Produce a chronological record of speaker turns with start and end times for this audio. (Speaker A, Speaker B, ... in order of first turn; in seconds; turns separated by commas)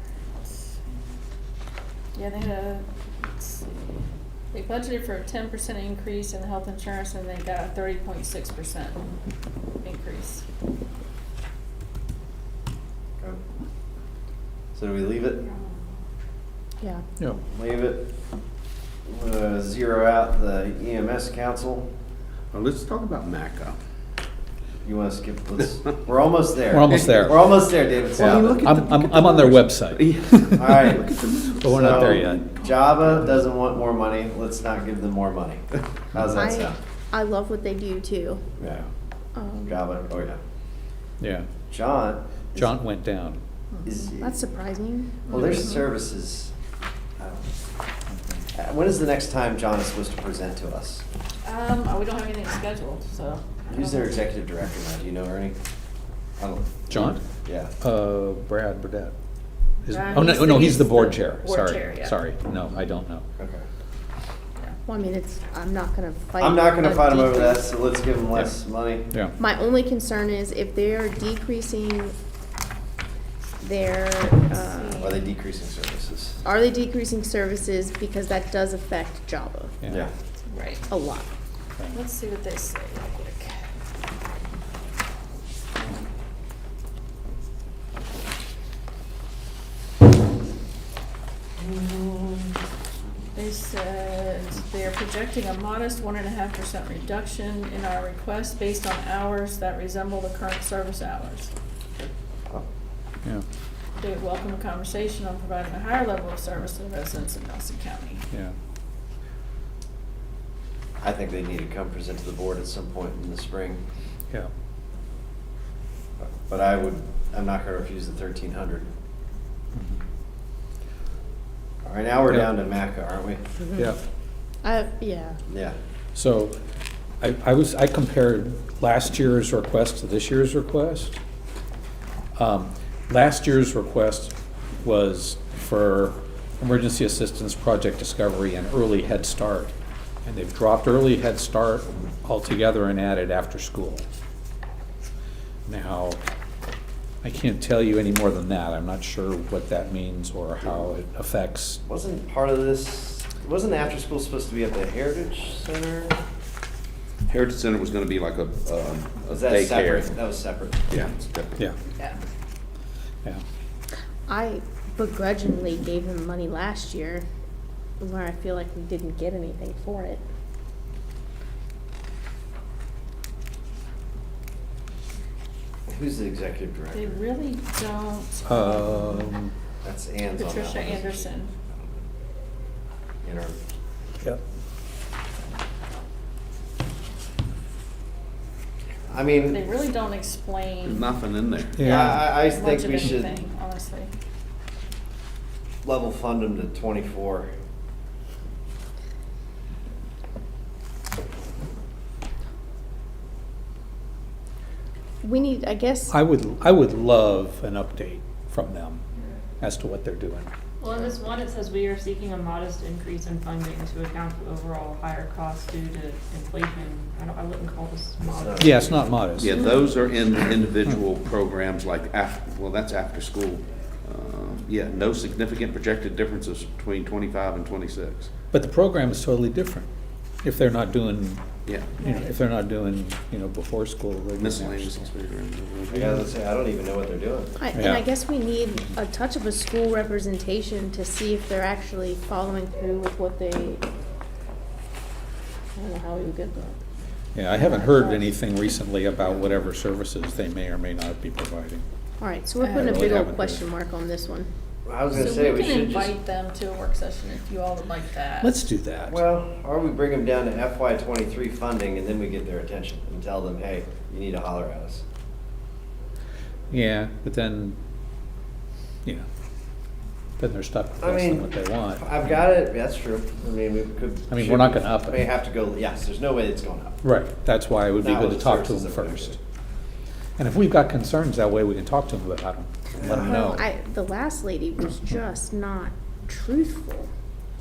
Speaker A: 2.1-2.9, Speaker A: 3.4-4.0, Speaker A: 4.5-9.0, Speaker A: 9.8-10.4, Speaker B: 14.7-15.5, Speaker B: 17.5-18.1, Speaker B: 19.1-21.9, Speaker C: 22.5-23.8, Speaker B: 24.8-28.7, Speaker D: 26.7-27.4, Speaker C: 26.9-27.2, Speaker D: 28.2-30.1, Speaker C: 28.2-32.4, Speaker B: 30.5-36.8, Speaker D: 31.6-32.5, Speaker E: 36.3-38.4, Speaker B: 38.6-38.9, Speaker E: 39.4-39.8, Speaker B: 39.7-40.4, Speaker D: 41.2-41.5, Speaker B: 41.7-42.2, Speaker D: 42.5-43.4, Speaker B: 43.9-44.4, Speaker E: 44.2-45.4, Speaker B: 45.3-46.5, Speaker B: 47.2-47.5, Speaker D: 48.1-48.5, Speaker B: 48.5-51.0, Speaker A: 51.4-54.2, Speaker B: 53.7-55.6, Speaker B: 56.4-57.7, Speaker D: 56.9-57.2, Speaker D: 57.8-59.1, Speaker D: 59.9-63.2, Speaker A: 59.9-62.2, Speaker B: 63.4-63.6, Speaker E: 64.9-67.7, Speaker B: 66.4-69.1, Speaker E: 69.4-72.1, Speaker E: 73.6-75.2, Speaker A: 74.5-75.1, Speaker B: 75.0-76.4, Speaker E: 76.4-79.8, Speaker D: 79.8-80.1, Speaker A: 80.5-80.9, Speaker E: 80.9-81.3, Speaker A: 81.9-83.5, Speaker B: 91.6-92.6, Speaker A: 93.3-101.5, Speaker B: 102.0-102.7, Speaker A: 104.0-108.2, Speaker B: 111.0-113.8, Speaker B: 116.2-118.9, Speaker B: 121.8-123.5, Speaker E: 124.6-125.4, Speaker B: 125.5-125.8, Speaker D: 126.2-126.5, Speaker D: 127.2-131.2, Speaker D: 132.4-139.7, Speaker D: 140.3-144.1, Speaker D: 145.7-146.2, Speaker D: 147.2-151.8, Speaker B: 151.9-156.2, Speaker C: 157.3-160.2, Speaker B: 159.3-160.9, Speaker C: 160.9-161.7, Speaker E: 164.3-167.2, Speaker E: 168.0-170.2, Speaker B: 175.9-177.1, Speaker A: 176.9-179.3, Speaker D: 178.5-179.5, Speaker B: 179.8-182.0, Speaker A: 180.4-181.5, Speaker B: 183.2-183.6, Speaker B: 189.1-189.6, Speaker A: 189.5-191.1, Speaker C: 190.9-191.8, Speaker D: 191.8-192.2, Speaker B: 191.8-193.3, Speaker A: 191.8-194.1, Speaker B: 195.8-197.5, Speaker E: 205.2-206.2, Speaker D: 206.1-209.0, Speaker D: 209.6-210.5, Speaker F: 210.8-219.9, Speaker B: 218.3-219.0, Speaker D: 218.6-219.6, Speaker C: 219.3-228.3, Speaker D: 228.5-229.9, Speaker D: 230.4-235.1, Speaker C: 231.7-232.0, Speaker A: 232.0-232.3, Speaker C: 234.4-236.2, Speaker B: 235.9-237.6, Speaker E: 237.6-243.9, Speaker D: 237.7-238.1, Speaker E: 245.8-246.8, Speaker D: 247.3-251.8, Speaker E: 247.6-248.2, Speaker E: 252.2-254.5, Speaker A: 252.6-253.0, Speaker D: 252.6-253.7, Speaker B: 254.8-256.1, Speaker A: 255.1-258.7, Speaker D: 258.4-259.2, Speaker B: 259.1-265.0, Speaker D: 266.7-267.8, Speaker D: 270.4-272.1, Speaker B: 271.0-277.0, Speaker D: 274.3-275.2, Speaker D: 277.0-279.4, Speaker B: 278.0-279.4, Speaker D: 280.4-283.6, Speaker E: 283.0-287.1